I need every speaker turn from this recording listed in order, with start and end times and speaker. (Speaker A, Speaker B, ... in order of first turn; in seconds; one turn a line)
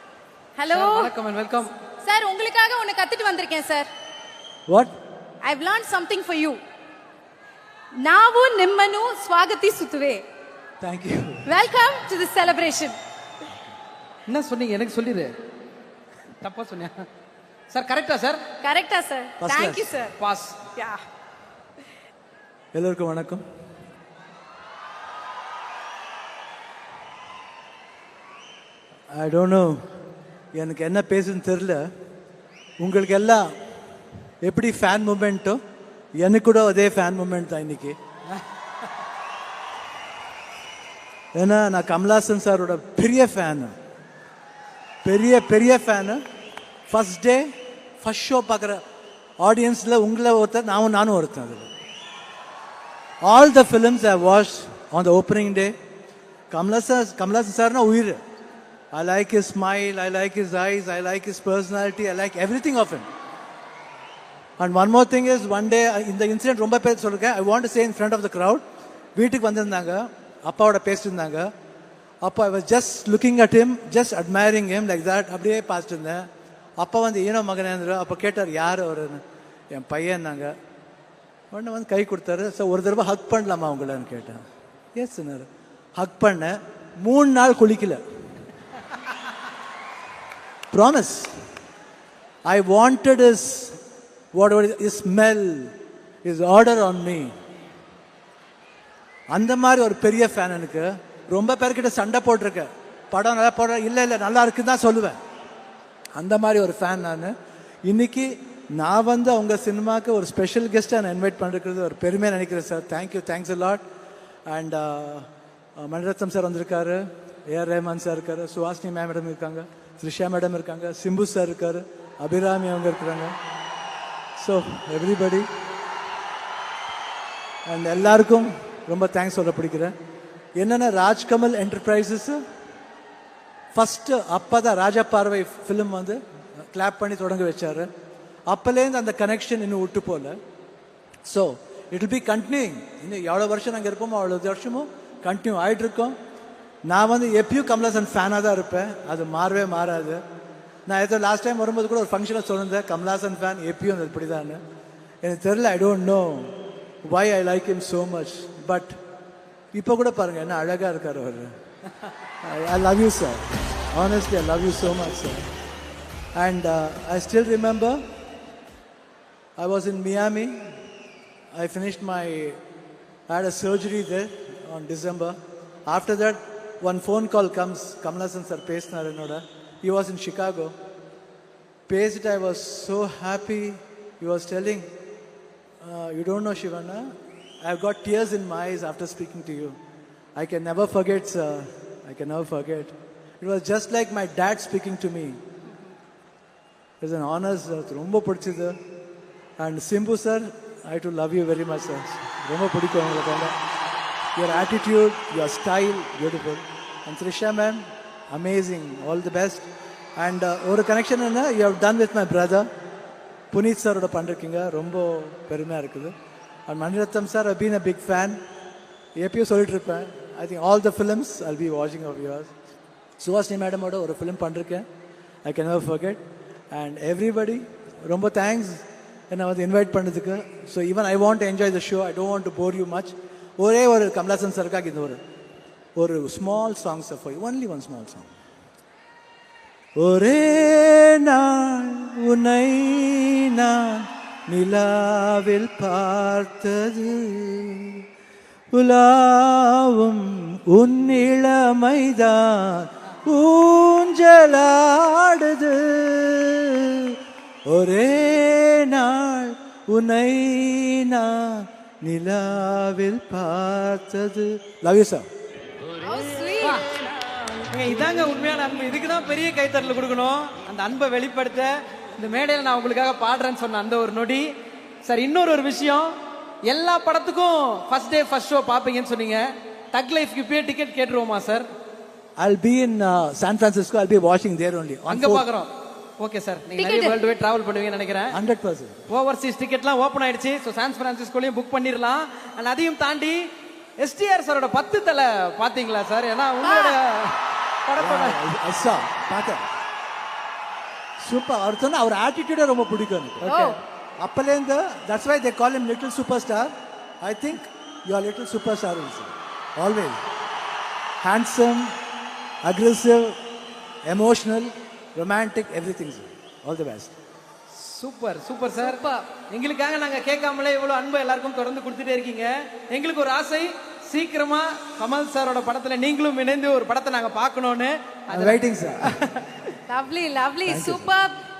Speaker A: 0.6-1.1
Speaker B: 0.7-1.7
Speaker A: 2.0-3.9
Speaker A: 5.4-6.6
Speaker A: 8.0-10.2
Speaker C: 10.8-11.5
Speaker A: 11.4-12.9
Speaker B: 14.3-15.3
Speaker B: 16.4-17.0
Speaker B: 17.7-18.4
Speaker A: 18.6-20.1
Speaker C: 19.4-19.9
Speaker B: 20.2-20.6
Speaker A: 20.7-21.0
Speaker C: 22.7-23.4
Speaker C: 29.1-29.8
Speaker C: 30.5-31.9
Speaker C: 32.8-33.5
Speaker C: 34.4-35.6
Speaker C: 36.2-38.0
Speaker C: 41.3-43.8
Speaker C: 45.0-46.2
Speaker C: 46.9-48.8
Speaker C: 49.4-51.7
Speaker C: 53.2-55.8
Speaker C: 56.5-58.2
Speaker C: 58.9-63.1
Speaker C: 64.6-68.6
Speaker C: 69.2-71.5
Speaker C: 72.2-76.3
Speaker C: 76.8-80.5
Speaker C: 81.5-84.4
Speaker C: 84.9-88.0
Speaker C: 90.7-91.3
Speaker C: 92.4-93.8
Speaker C: 94.3-97.3
Speaker C: 99.3-105.2
Speaker C: 106.1-113.8
Speaker C: 114.5-123.3
Speaker C: 124.4-125.5
Speaker C: 127.7-129.9
Speaker C: 130.6-132.4
Speaker C: 133.7-137.9
Speaker C: 138.5-140.4
Speaker C: 141.2-146.2
Speaker C: 146.8-150.2
Speaker C: 150.8-154.6
Speaker C: 155.2-159.0
Speaker C: 159.7-161.5
Speaker C: 162.4-165.5
Speaker C: 166.3-168.0
Speaker C: 169.6-170.8
Speaker C: 171.5-172.6
Speaker C: 173.3-180.7
Speaker C: 181.9-184.9
Speaker C: 185.8-189.8
Speaker C: 190.3-195.4
Speaker C: 197.0-198.8
Speaker C: 199.6-203.6
Speaker C: 204.3-212.7
Speaker C: 213.5-216.1
Speaker C: 216.7-218.4
Speaker C: 219.2-222.5
Speaker C: 223.2-224.8
Speaker C: 225.4-235.2
Speaker C: 235.9-238.3
Speaker C: 240.0-248.0
Speaker C: 248.7-257.2
Speaker C: 257.7-265.3
Speaker A: 265.9-266.8
Speaker B: 267.6-274.5
Speaker B: 275.0-276.1
Speaker B: 276.7-281.7
Speaker C: 282.4-285.5
Speaker B: 285.1-288.4
Speaker A: 286.8-287.2
Speaker C: 288.3-289.0
Speaker B: 289.1-293.4
Speaker B: 294.0-298.4
Speaker A: 296.6-297.0
Speaker C: 298.0-299.6
Speaker C: 301.2-310.2
Speaker A: 303.4-303.8
Speaker B: 303.4-303.8
Speaker C: 311.2-311.9
Speaker C: 312.6-313.4
Speaker C: 314.1-317.1
Speaker B: 317.7-329.5
Speaker C: 328.3-329.1
Speaker A: 329.9-331.4
Speaker C: 330.6-331.1